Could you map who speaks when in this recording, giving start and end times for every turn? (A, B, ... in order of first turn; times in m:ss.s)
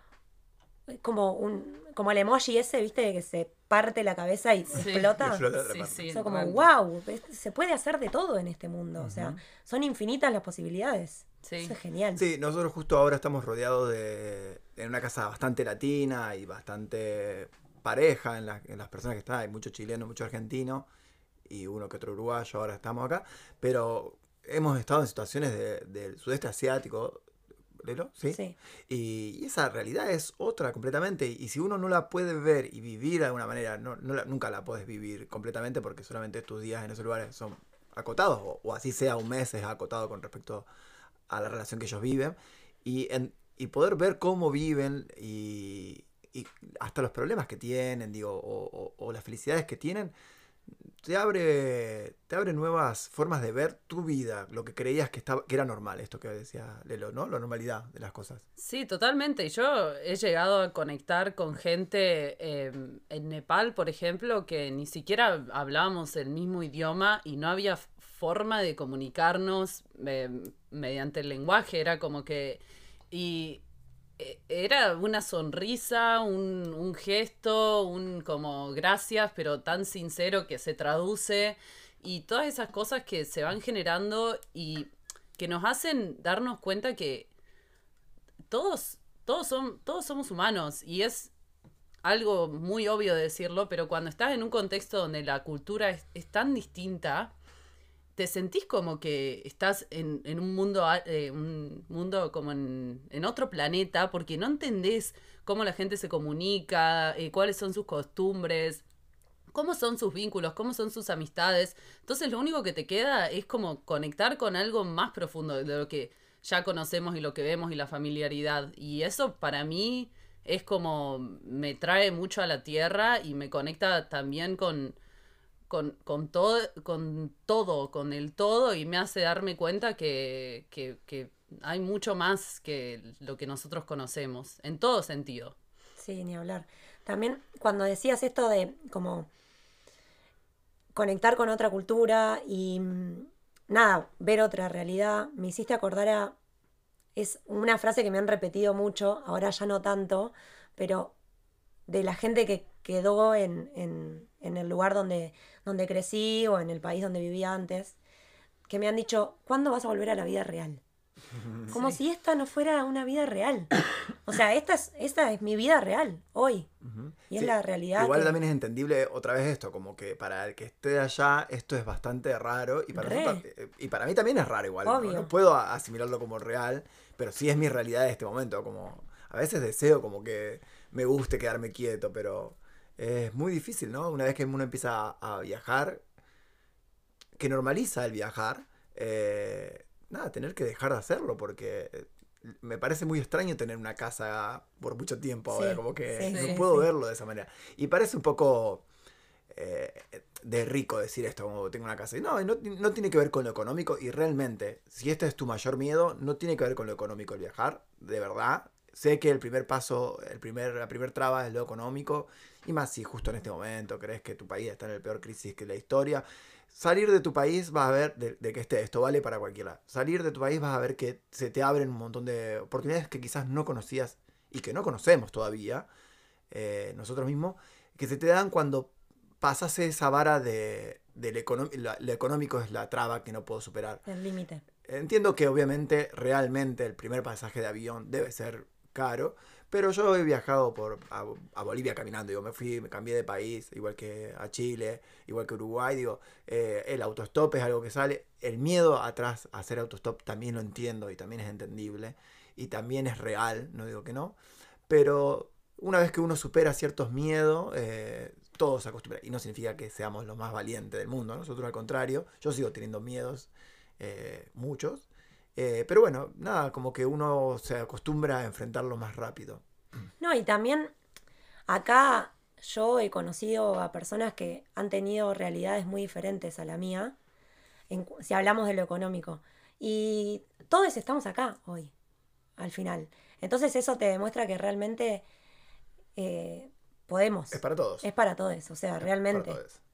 0:00.9-0:05.5 A
0:04.8-0:06.6 B
0:04.8-0:06.2 C
0:06.1-0:12.2 A
0:09.0-0:09.4 C
0:11.4-0:11.7 B
0:12.1-0:20.9 C
0:21.5-0:27.2 C
0:27.8-0:40.7 C
0:28.3-0:28.6 A
0:41.3-0:50.2 C
0:51.0-0:58.4 C
0:58.6-1:13.6 B
1:14.2-1:27.3 B
1:28.5-1:31.3 B
1:32.0-1:37.3 B
1:38.2-1:48.8 B
1:49.5-2:05.0 B
2:05.7-2:15.5 B
2:16.0-2:19.3 A
2:20.9-2:26.3 A
2:27.1-2:31.1 A
2:31.9-2:38.0 A
2:38.7-2:40.8 A
2:41.3-2:41.8 C
2:41.7-2:43.7 A
2:44.2-2:46.7 A
2:46.8-3:06.0 C
2:47.3-2:48.3 A
2:52.9-2:53.4 A
2:54.8-2:55.3 A
3:07.4-3:18.8 C
3:15.5-3:16.8 A
3:16.3-3:16.7 B
3:19.5-3:45.9 C
3:46.5-3:54.0 C
3:54.0-3:54.6 A
3:54.8-4:29.6 C
4:30.2-4:30.9 A
4:31.7-4:37.1 A
4:37.9-4:41.9 A
4:42.6-4:45.2 A
4:46.2-4:49.6 A
4:47.5-4:48.1 C
4:49.0-4:49.8 C